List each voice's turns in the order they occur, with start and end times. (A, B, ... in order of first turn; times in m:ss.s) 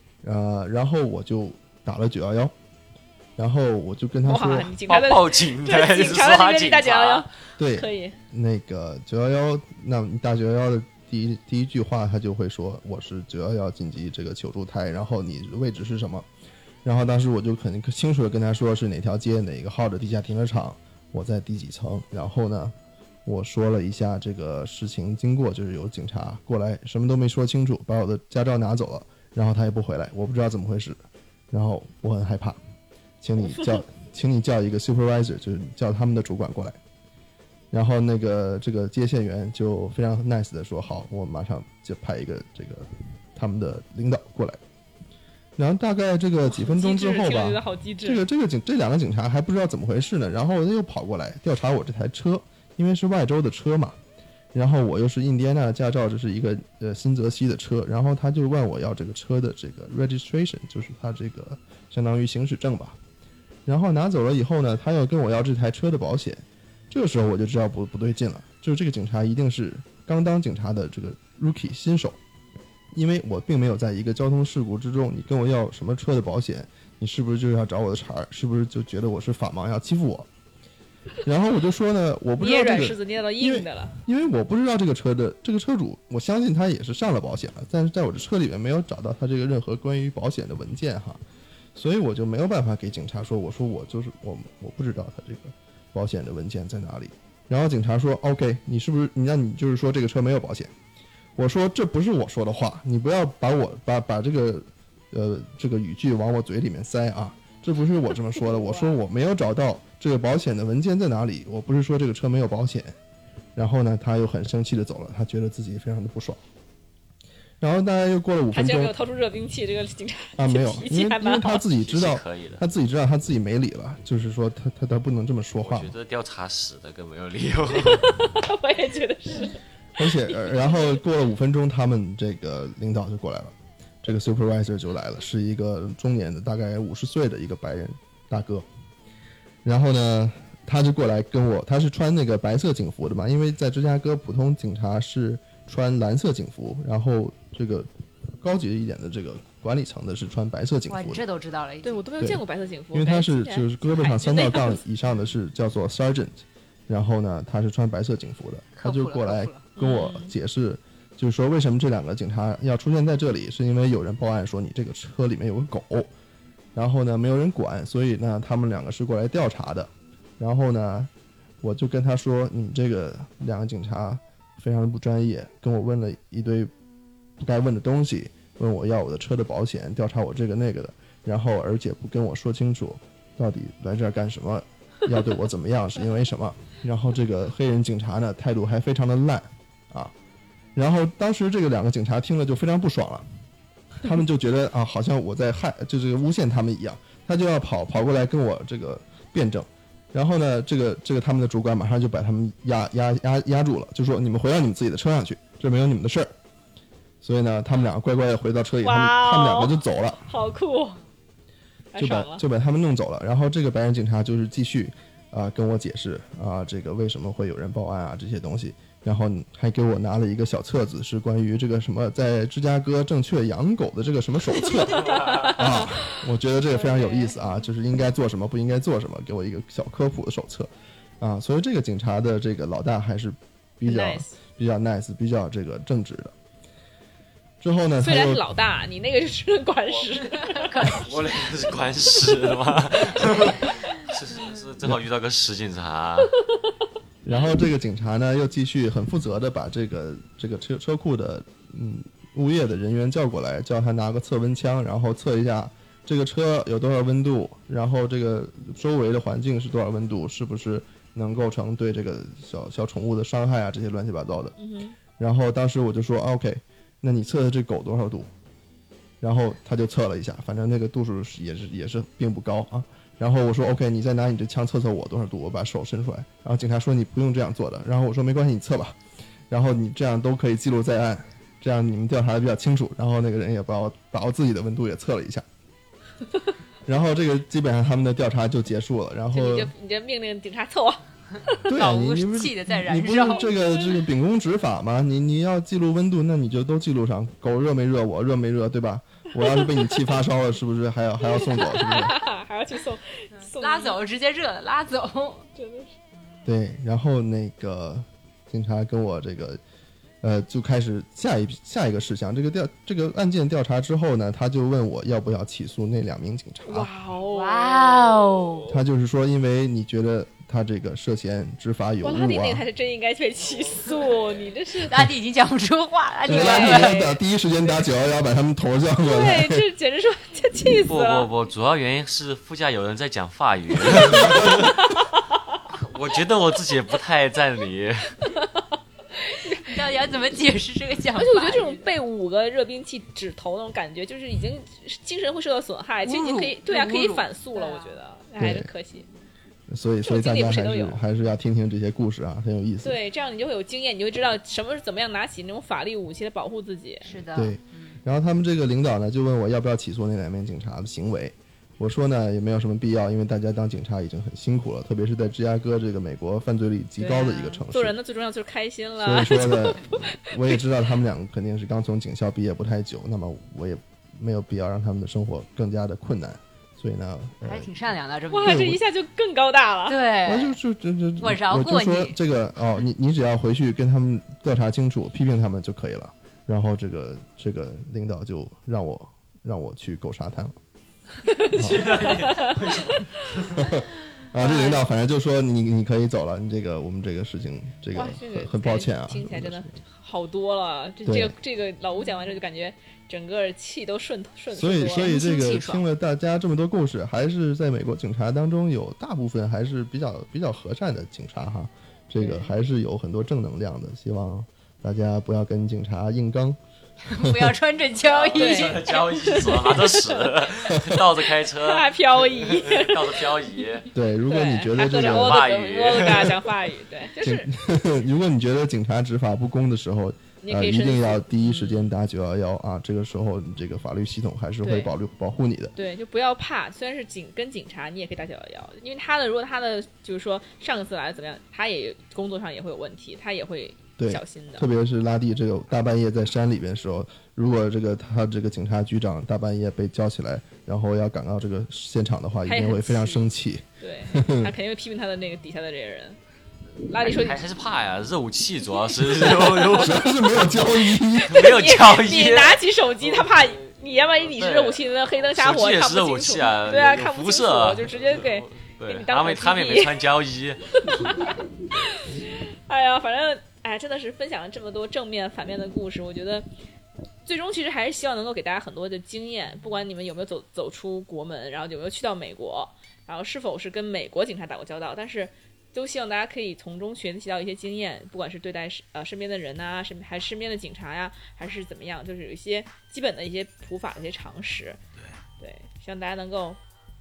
0:00.2-0:02.5 A
0:03.4-0:04.8 A
0:04.2-0:08.2 B
0:04.9-0:07.3 C
0:07.6-0:16.3 A
0:16.8-0:22.7 A
0:23.2-0:31.0 A
0:31.5-0:32.6 A
0:33.2-0:36.8 A
0:37.7-0:44.6 A
0:45.6-0:54.0 A
0:46.5-0:48.2 B
0:54.5-1:03.0 A
1:03.7-1:12.2 A
1:12.9-1:20.3 A
1:21.2-1:31.2 A
1:22.4-1:24.0 B
1:31.8-1:40.7 A
1:41.4-1:53.0 A
1:48.4-1:49.0 B
1:53.6-1:56.4 A
1:57.6-1:58.9 A
1:58.5-2:01.6 B
2:00.4-2:05.9 A
2:01.8-2:02.6 C
2:05.6-2:08.1 C
2:07.7-2:10.8 B
2:10.0-2:18.7 A
2:19.6-2:27.9 A
2:28.4-2:31.2 A
2:30.9-2:32.1 D
2:31.8-2:34.8 B
2:32.2-2:46.1 A
2:38.8-2:39.7 D
2:39.8-2:40.3 B
2:46.8-2:56.7 A
2:57.4-3:10.1 A
3:10.8-3:13.2 A
3:13.9-3:26.4 A
3:27.2-3:30.2 A
3:28.8-3:31.0 B
3:31.9-3:32.4 B
3:32.0-3:50.7 A
3:45.2-3:46.2 B
3:46.7-3:47.4 B
3:51.2-3:56.3 A
3:53.8-3:54.4 B
3:57.6-3:58.4 A
3:58.0-4:01.0 B
4:00.1-4:01.2 D
4:01.0-4:06.3 C
4:07.2-4:24.6 A
4:24.6-4:25.0 B
4:25.1-4:28.3 A
4:29.2-4:39.0 A
4:39.5-4:45.4 A
4:46.9-4:49.7 A
4:49.3-4:51.6 B
4:51.6-5:02.2 A
4:51.7-4:53.5 D
4:53.4-4:53.9 B
5:01.2-5:04.0 B
5:03.4-5:05.5 D
5:05.6-5:06.0 B
5:06.4-5:09.6 A
5:10.2-5:16.9 A
5:16.6-5:18.8 B
5:17.3-5:18.7 D
5:18.7-5:22.7 A
5:22.0-5:25.1 B
5:24.8-5:27.0 D
5:26.2-5:27.2 B
5:26.3-5:29.6 A
5:29.0-5:31.3 B
5:30.9-5:34.9 C
5:34.0-5:35.4 B
5:34.1-5:34.6 A
5:35.7-5:38.2 C
5:38.4-5:38.7 B
5:39.2-5:39.9 B
5:39.4-5:41.9 D
5:41.2-5:49.1 B
5:46.0-5:48.0 D
5:48.4-5:48.7 A
5:49.7-5:53.0 A
5:50.0-5:51.0 B
5:52.8-5:57.2 B
5:57.0-5:58.0 D
5:57.3-6:08.0 A
6:07.0-6:10.6 B
6:09.0-6:17.7 A
6:17.4-6:18.8 D
6:18.3-6:20.0 B
6:18.4-6:18.8 A
6:19.9-6:20.6 D
6:20.2-6:30.5 A
6:21.2-6:22.2 D
6:31.2-6:33.3 B
6:31.6-6:32.1 A
6:31.6-6:33.6 C
6:33.6-6:39.8 A
6:34.4-6:34.9 B
6:37.9-6:45.1 B
6:41.1-6:41.4 A
6:44.5-6:56.6 A
6:44.9-6:45.8 D
6:57.0-6:59.0 D
6:57.2-6:57.6 A
6:58.0-7:03.9 C
6:58.4-7:00.5 B
7:00.8-7:01.0 A
7:01.3-7:03.4 B
7:03.9-7:05.5 A
7:04.3-7:07.5 B
7:04.9-7:06.4 C
7:06.0-7:06.4 A
7:07.2-7:15.7 A
7:10.4-7:11.9 B
7:14.6-7:14.9 B
7:15.8-7:24.7 B
7:24.0-7:34.5 A
7:32.5-7:33.3 B
7:33.8-7:36.2 B
7:36.9-7:37.4 B
7:36.9-7:40.6 C
7:39.7-7:41.6 A
7:41.2-7:50.0 B
7:41.3-7:42.6 C
7:44.3-7:51.1 C
7:50.7-7:56.5 B
7:57.2-8:14.8 B
8:15.4-8:16.6 B